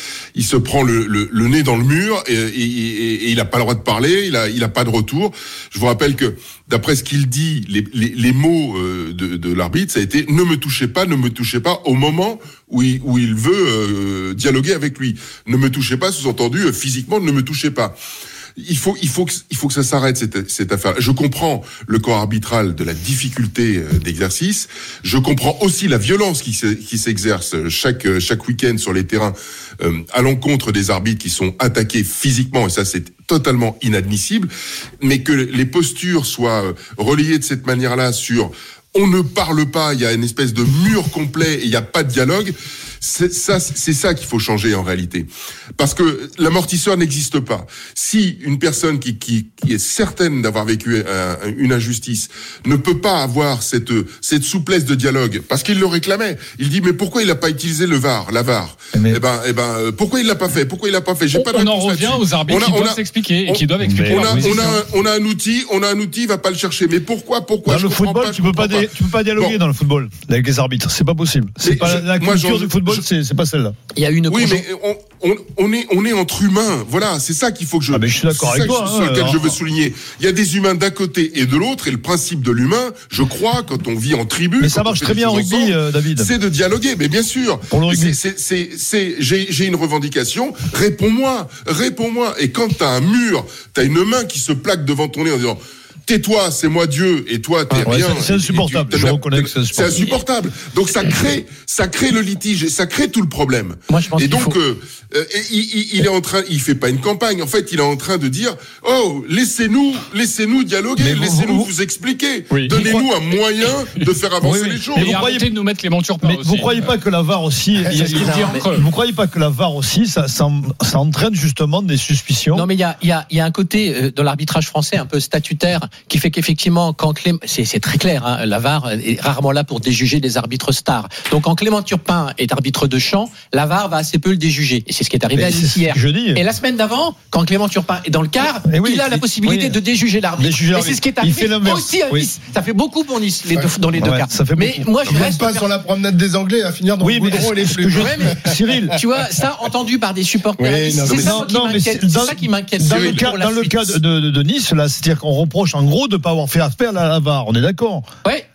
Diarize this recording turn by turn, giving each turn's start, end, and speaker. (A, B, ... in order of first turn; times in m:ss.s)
0:00.4-0:18.0 A
0:18.6-1:09.6 A
0:58.9-0:59.2 B
1:01.3-1:04.8 C
1:03.8-1:04.7 B
1:07.7-1:13.8 B
1:11.6-1:13.1 A
1:14.0-1:14.7 D
1:14.3-1:55.2 A
1:17.9-1:19.6 B
1:24.6-1:26.3 B
1:27.7-1:28.2 B
1:37.8-1:40.0 B
1:43.9-1:44.6 D
1:51.0-1:51.7 B
1:52.5-1:53.1 C
1:54.4-1:55.5 B
1:55.0-1:56.7 C
1:56.2-2:02.7 B
1:57.9-1:58.4 E
1:57.9-1:58.8 C
1:57.9-1:58.7 D
2:02.5-2:25.8 D
2:15.3-2:16.4 B
2:18.6-2:19.8 B
2:20.4-2:22.3 B
2:23.9-2:24.9 B
2:25.1-2:28.8 E
2:27.0-2:29.0 B
2:28.0-2:28.4 D
2:28.9-2:34.0 D
2:30.6-2:31.3 E
2:31.1-2:31.4 A
2:31.2-2:38.1 B
2:32.9-2:33.3 A